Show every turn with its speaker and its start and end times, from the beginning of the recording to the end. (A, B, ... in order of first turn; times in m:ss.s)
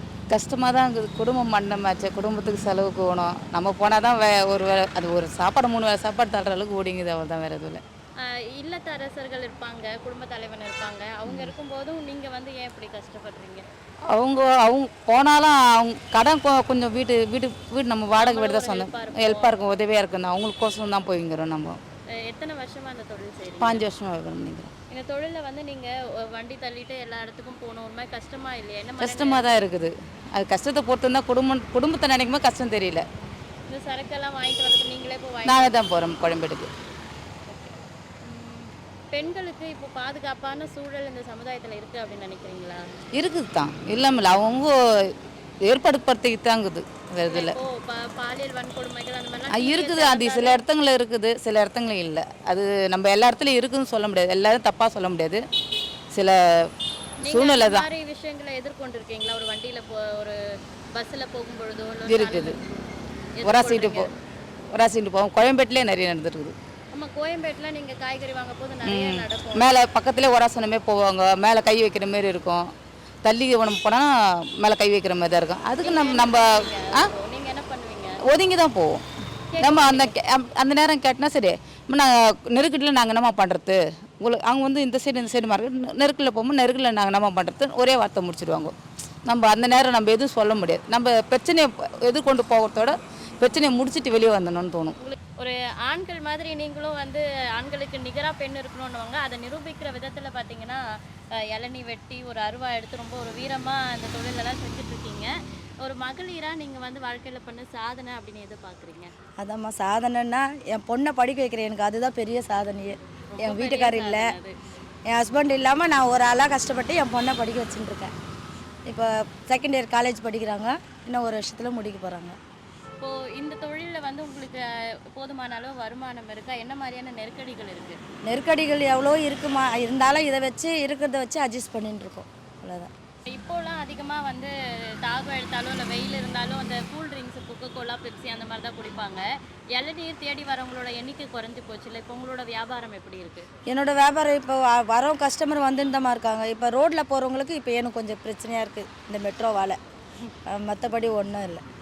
0:00.3-0:07.8 A
0:08.2-0:13.6 B
0:14.1-0:21.8 A
0:18.2-0:19.6 B
0:22.2-0:23.8 B
0:23.6-0:24.7 A
0:24.9-0:29.5 B
0:29.0-0:33.0 A
0:33.7-0:35.7 B
0:35.5-0:36.7 A
0:38.2-0:42.8 B
0:43.2-0:45.1 A
0:45.6-0:47.6 A
0:47.3-0:50.6 B
0:49.5-0:55.4 A
0:56.1-0:56.7 A
0:57.2-1:00.4 B
0:57.3-0:57.9 A
1:00.9-1:02.6 B
1:02.1-1:02.6 A
1:03.4-1:04.1 B
1:03.4-1:04.1 A
1:04.7-1:06.5 A
1:06.9-1:09.7 B
1:08.9-1:12.7 A
1:13.2-1:14.1 A
1:14.6-1:17.1 A
1:15.8-1:18.2 B
1:18.2-1:19.0 A
1:19.5-1:20.1 B
1:19.6-1:28.8 A
1:29.3-1:35.0 A
1:35.0-1:40.8 B
1:41.5-1:45.3 B
1:45.8-1:49.1 B
1:49.4-1:54.3 C
1:53.3-1:54.6 B
1:55.1-1:58.1 C
1:58.9-2:02.4 C
2:03.0-2:08.0 B
2:08.3-2:12.9 C
2:13.3-2:14.5 B
2:15.0-2:19.2 B
2:19.8-2:23.5 B
2:23.7-2:29.8 C
2:30.5-2:31.6 C